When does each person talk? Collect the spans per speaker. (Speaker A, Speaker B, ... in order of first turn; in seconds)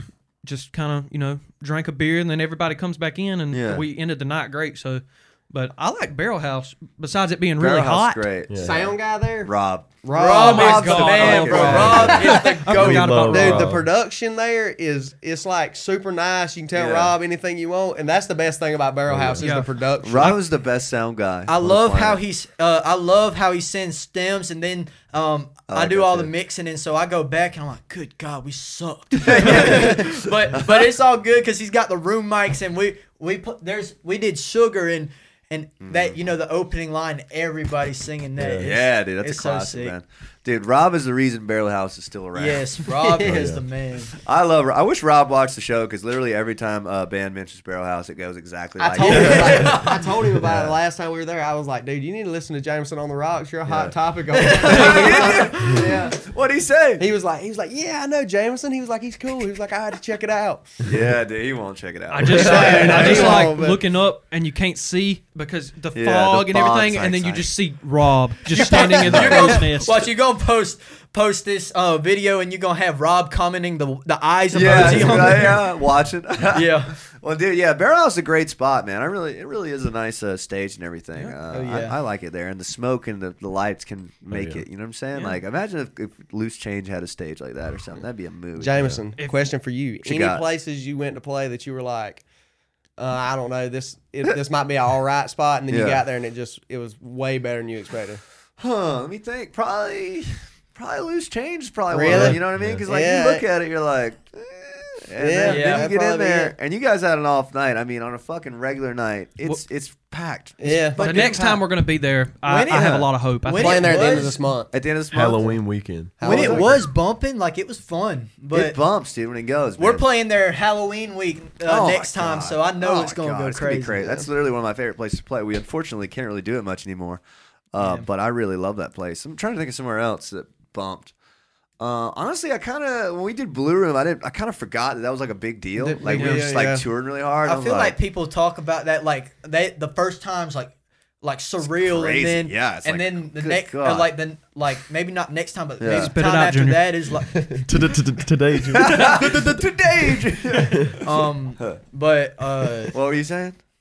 Speaker A: 0.4-8.2, 10.3-13.8, 19.4-20.4, 62.1-70.1, 85.1-85.4, 89.2-89.5, 111.0-114.4, 136.1-136.5, 145.8-146.8
Speaker B: 3.5-3.8, 7.6-8.9, 9.4-12.3, 16.7-17.1, 20.0-22.2, 25.7-26.3, 29.1-30.9, 35.8-36.1, 38.6-42.7, 44.1-49.8, 53.7-54.0, 54.5-57.1, 60.8-63.5, 65.9-67.5, 68.6-69.6, 74.5-89.0, 90.0-90.4, 95.7-96.0, 98.6-111.6, 112.7-113.1, 114.7-115.6, 116.2-116.7, 118.5-120.0, 121.6-127.2, 127.7-131.1, 131.8-137.9, 141.6-144.1, 145.8-146.1, 148.7-151.8, 152.9-153.6
Speaker C: 8.5-8.9, 12.7-13.9, 19.1-19.5, 38.4-38.8, 43.2-43.6, 84.3-84.6, 102.1-102.8, 115.1-116.2, 147.3-149.5, 150.1-151.0
Speaker D: 8.6-9.5, 10.0-20.4, 43.0-43.4, 48.9-55.9, 57.0-60.8, 62.2-63.8, 88.5-92.2, 93.0-98.2, 101.9-103.4, 105.2-106.5, 110.6-111.0, 113.5-114.7, 116.2-116.9, 135.7-136.8
Speaker E: 10.1-13.2, 21.4-40.0, 42.3-44.1, 48.8-50.1, 54.3-55.5, 68.5-75.6, 76.5-77.0, 81.5-82.0, 105.4-105.9, 110.7-111.2, 112.4-114.4, 116.2-118.8, 119.8-124.2, 127.8-128.1, 137.4-147.7, 151.0-152.9